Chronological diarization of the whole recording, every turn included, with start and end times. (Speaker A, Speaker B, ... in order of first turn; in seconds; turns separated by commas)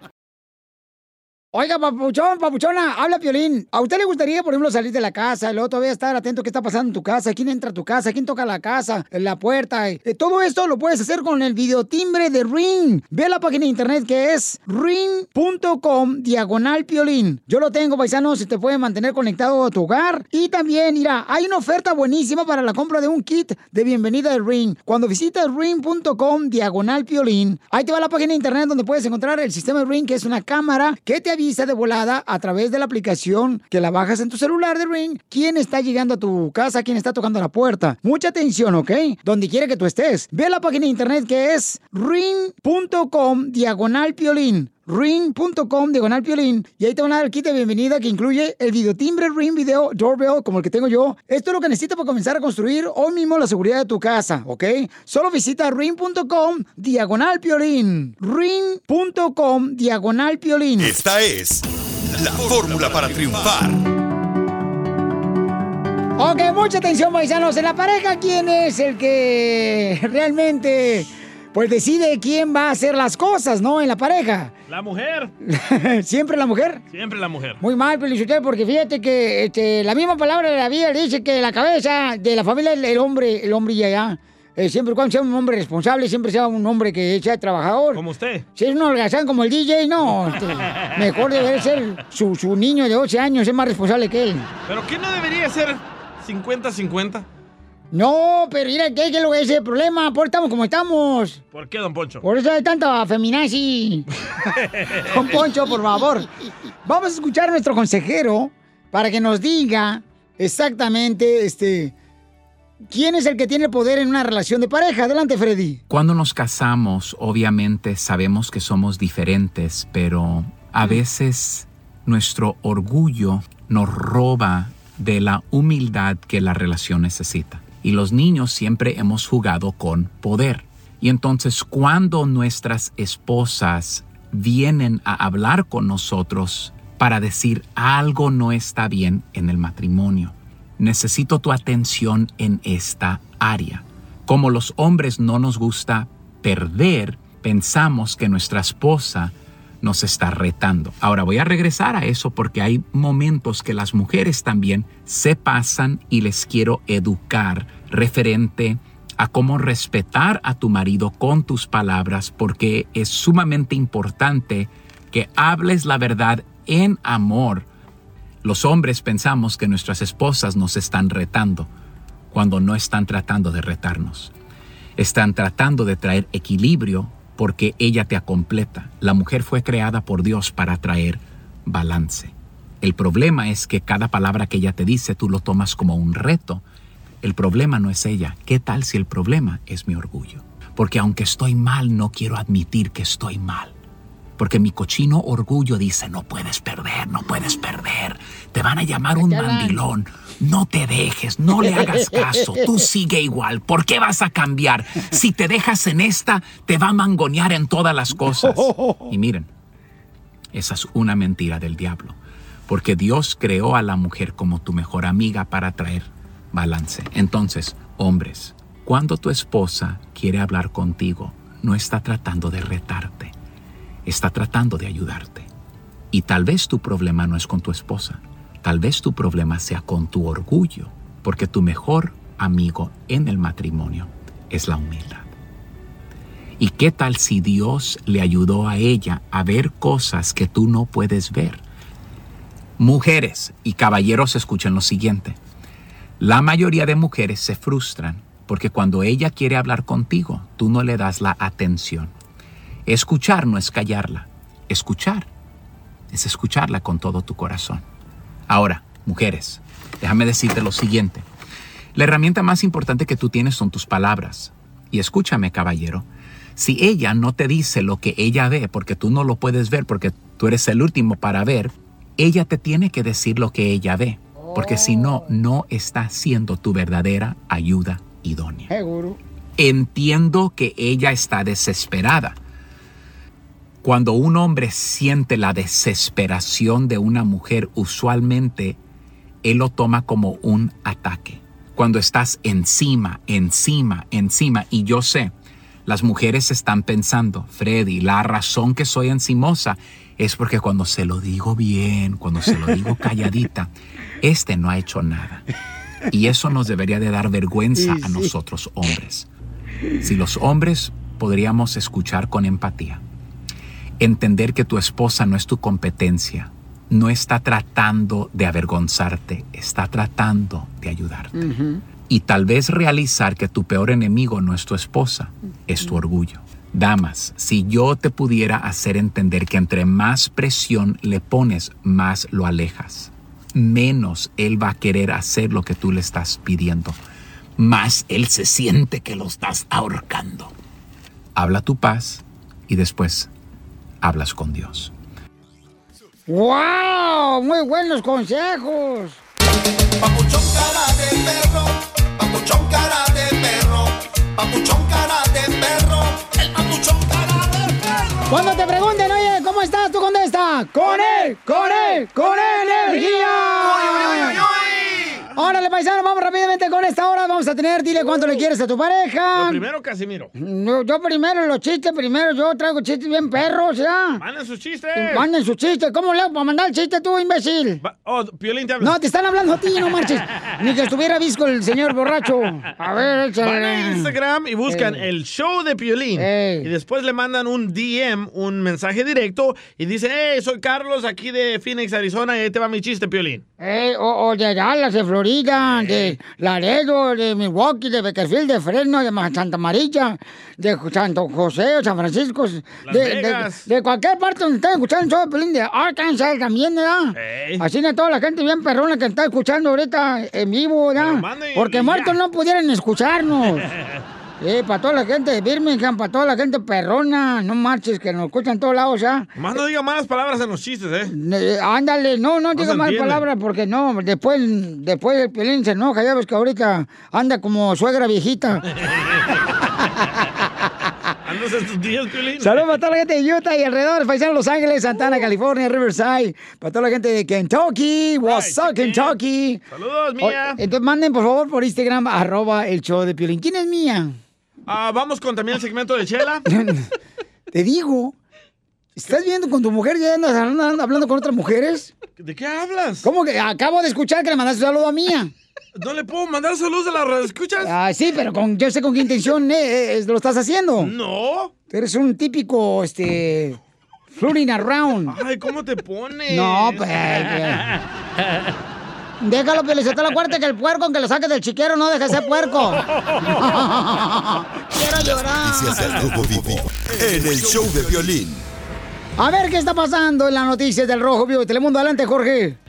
Speaker A: 1.5-61.0, Speaker B: 60.8-63.8, Speaker A: 66.2-74.5, Speaker C: 74.7-75.3, Speaker A: 75.5-76.8, Speaker C: 76.9-77.6, Speaker A: 77.6-88.0, Speaker C: 87.9-88.5, Speaker A: 88.5-94.5, Speaker C: 94.7-97.2, Speaker A: 97.9-101.4, Speaker C: 101.5-102.2, Speaker A: 102.2-104.1, Speaker C: 104.5-105.3, Speaker A: 105.1-106.3, Speaker A: 106.8-111.9, Speaker A: 112.9-115.8, Speaker D: 115.9-167.7, Speaker D: 168.4-171.7, Speaker D: 172.3-174.3, Speaker D: 175.0-186.6, Speaker D: 187.2-193.7, Speaker D: 194.4-209.5, Speaker A: 199.1-199.8, Speaker A: 201.6-202.7, Speaker A: 208.3-209.1, Speaker D: 210.5-212.2, Speaker D: 212.7-223.3, Speaker D: 224.1-225.5, Speaker D: 226.1-235.3, Speaker D: 236.6-241.6, Speaker D: 242.8-245.4, Speaker D: 246.2-252.1, Speaker D: 252.9-255.3, Speaker D: 256.1-257.8, Speaker D: 258.5-261.3, Speaker D: 261.9-278.7, Speaker A: 274.4-275.3, Speaker A: 278.7-279.2, Speaker D: 279.6-282.4, Speaker D: 283.8-288.8, Speaker D: 289.4-295.3, Speaker D: 295.9-303.7, Speaker D: 304.2-305.4, Speaker D: 306.1-309.3, Speaker A: 307.8-308.3, Speaker D: 310.0-313.0, Speaker D: 314.0-321.4, Speaker A: 321.3-321.8, Speaker D: 322.1-337.0, Speaker D: 337.6-340.5, Speaker D: 341.3-343.3, Speaker D: 344.0-344.9, Speaker A: 346.3-349.2, Speaker E: 350.0-357.4, Speaker A: 358.3-364.4, Speaker C: 360.9-361.3, Speaker C: 362.5-365.3, Speaker A: 365.3-369.6, Speaker C: 369.3-370.3, Speaker A: 370.4-374.2, Speaker C: 374.2-375.3, Speaker A: 374.9-377.8, Speaker C: 377.8-378.9, Speaker A: 378.8-384.1, Speaker C: 383.4-393.4, Speaker A: 384.7-385.1, Speaker A: 386.2-386.7, Speaker A: 393.6-413.7, Speaker C: 395.6-396.2, Speaker C: 402.8-403.7, Speaker C: 407.2-407.6, Speaker C: 410.9-412.2, Speaker A: 414.4-419.3, Speaker C: 419.4-421.1, Speaker A: 421.1-428.6, Speaker C: 422.6-423.3, Speaker C: 428.8-429.3, Speaker C: 431.3-432.7, Speaker A: 432.4-439.6, Speaker C: 438.2-439.2, Speaker C: 439.7-440.6, Speaker A: 440.2-444.2, Speaker C: 444.7-446.4, Speaker A: 446.5-446.9, Speaker A: 447.5-448.2, Speaker A: 448.9-451.9, Speaker C: 452.2-453.1, Speaker A: 453.0-455.3, Speaker C: 455.8-457.7, Speaker A: 457.6-460.9, Speaker C: 460.8-461.5, Speaker A: 461.7-463.6, Speaker A: 464.1-465.2, Speaker C: 465.1-467.8, Speaker A: 466.3-467.6, Speaker A: 469.2-475.9, Speaker B: 474.9-478.4, Speaker A: 479.2-482.6